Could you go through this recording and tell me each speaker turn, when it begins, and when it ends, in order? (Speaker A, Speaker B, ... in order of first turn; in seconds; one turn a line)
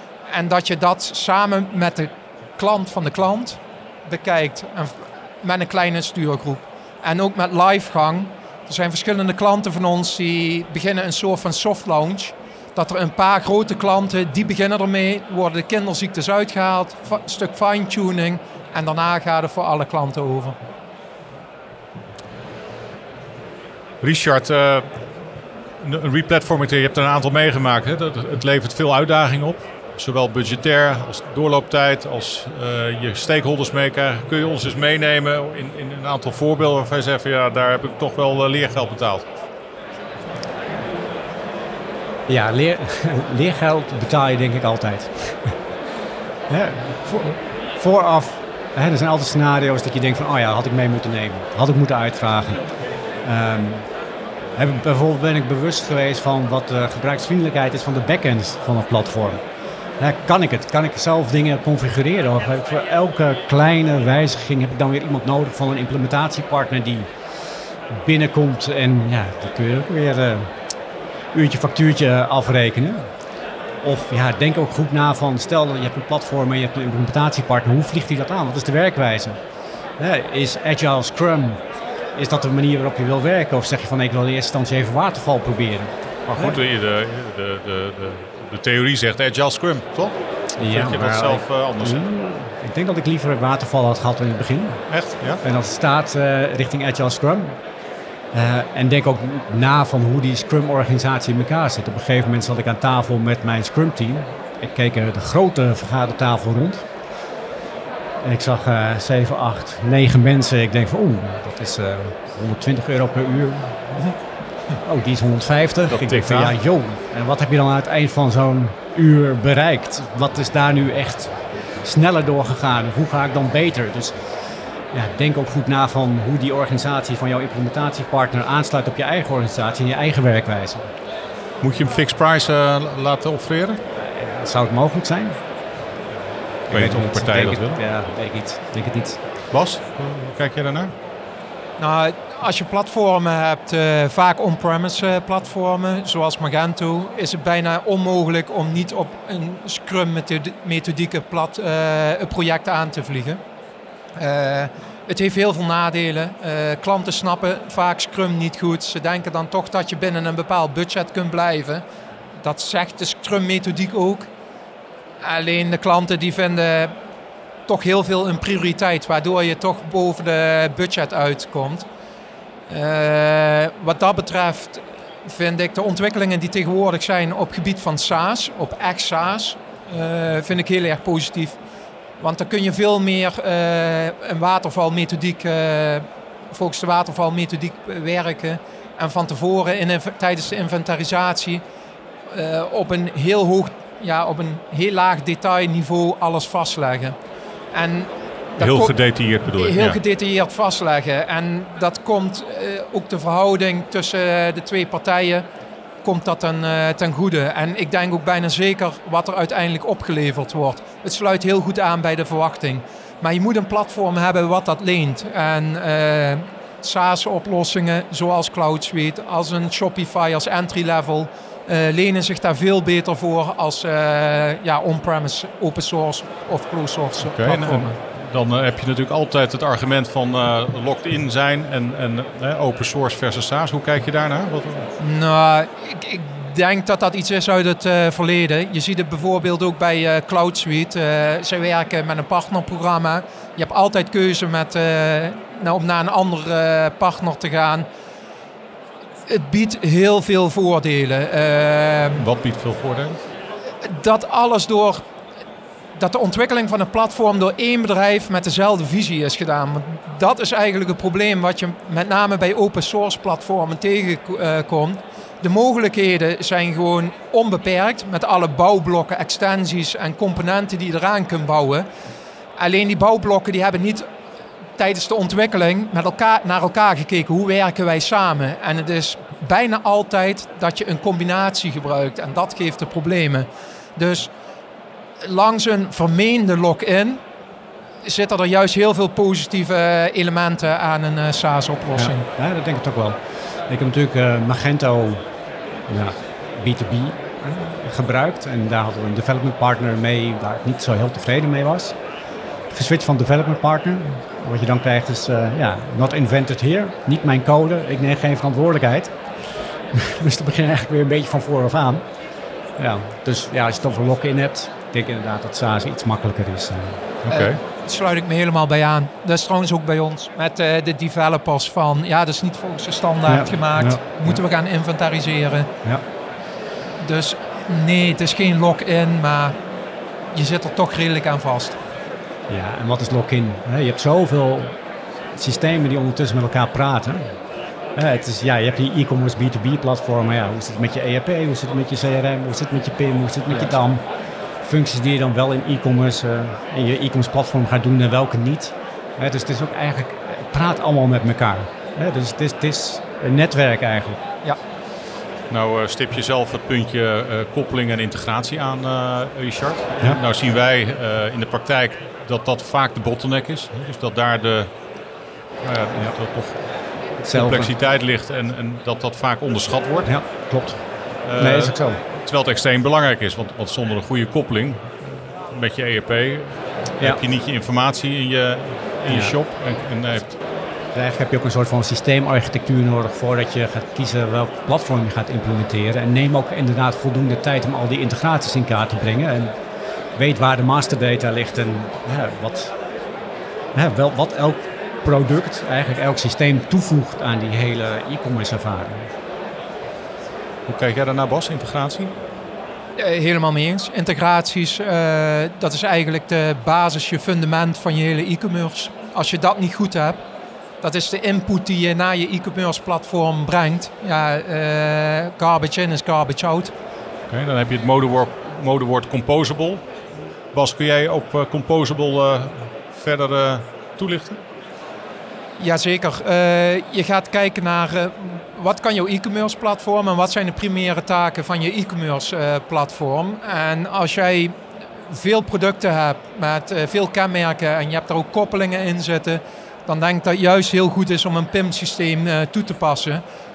Speaker A: 0.3-20.6
Speaker B: 24.0-25.0
Speaker B: 25.8-39.2
Speaker C: 42.3-45.5
Speaker C: 46.5-52.6
Speaker C: 53.2-53.9
Speaker C: 54.6-59.4
Speaker C: 60.0-67.1
Speaker C: 67.9-70.5
Speaker C: 71.3-73.0
Speaker C: 73.8-79.4
Speaker C: 80.0-81.6
Speaker C: 82.1-86.6
Speaker B: 86.3-92.0
Speaker C: 90.6-94.8
Speaker B: 94.9-95.4
Speaker C: 95.4-97.6
Speaker C: 98.3-106.9
Speaker C: 108.2-113.9
Speaker C: 114.8-124.1
Speaker B: 115.9-116.6
Speaker C: 124.9-130.9
Speaker B: 131.6-133.8
Speaker C: 133.9-135.4
Speaker B: 136.7-137.8
Speaker C: 136.7-139.2
Speaker B: 139.5-140.9
Speaker A: 141.8-153.4
Speaker A: 154.2-161.8
Speaker A: 162.4-164.3
Speaker A: 165.2-166.9
Speaker A: 167.7-171.9
Speaker A: 172.7-181.6
Speaker A: 182.2-191.6
Speaker A: 192.3-197.2
Speaker A: 197.7-205.4
Speaker B: 198.6-200.0
Speaker A: 206.0-227.9
Speaker B: 227.2-234.9
Speaker A: 235.0-247.9
Speaker A: 249.3-252.2
Speaker B: 252.2-253.2
Speaker A: 253.8-255.0
Speaker A: 255.9-271.9
Speaker A: 272.6-274.1
Speaker A: 274.8-284.3
Speaker A: 285.2-287.2
Speaker A: 288.0-292.3
Speaker C: 291.9-295.2
Speaker C: 295.9-301.9
Speaker C: 302.7-309.1
Speaker C: 309.9-312.0
Speaker C: 312.8-317.0
Speaker B: 317.2-317.6
Speaker A: 317.3-325.7
Speaker C: 323.2-324.4
Speaker A: 327.0-329.6
Speaker A: 330.3-331.8
Speaker C: 332.5-334.8
Speaker C: 335.4-337.2
Speaker C: 337.9-344.0
Speaker C: 344.6-354.2
Speaker B: 355.5-364.7
Speaker B: 365.6-366.6
Speaker B: 367.2-370.1
Speaker C: 367.2-367.7
Speaker C: 370.0-370.8
Speaker B: 371.2-380.4
Speaker C: 371.4-372.0
Speaker C: 379.1-379.3
Speaker C: 380.9-389.5
Speaker C: 390.1-392.7
Speaker C: 393.7-399.1
Speaker B: 400.7-402.1
Speaker A: 402.9-410.2
Speaker A: 410.8-416.7
Speaker B: 417.3-419.8
Speaker B: 420.5-424.4
Speaker A: 425.6-443.2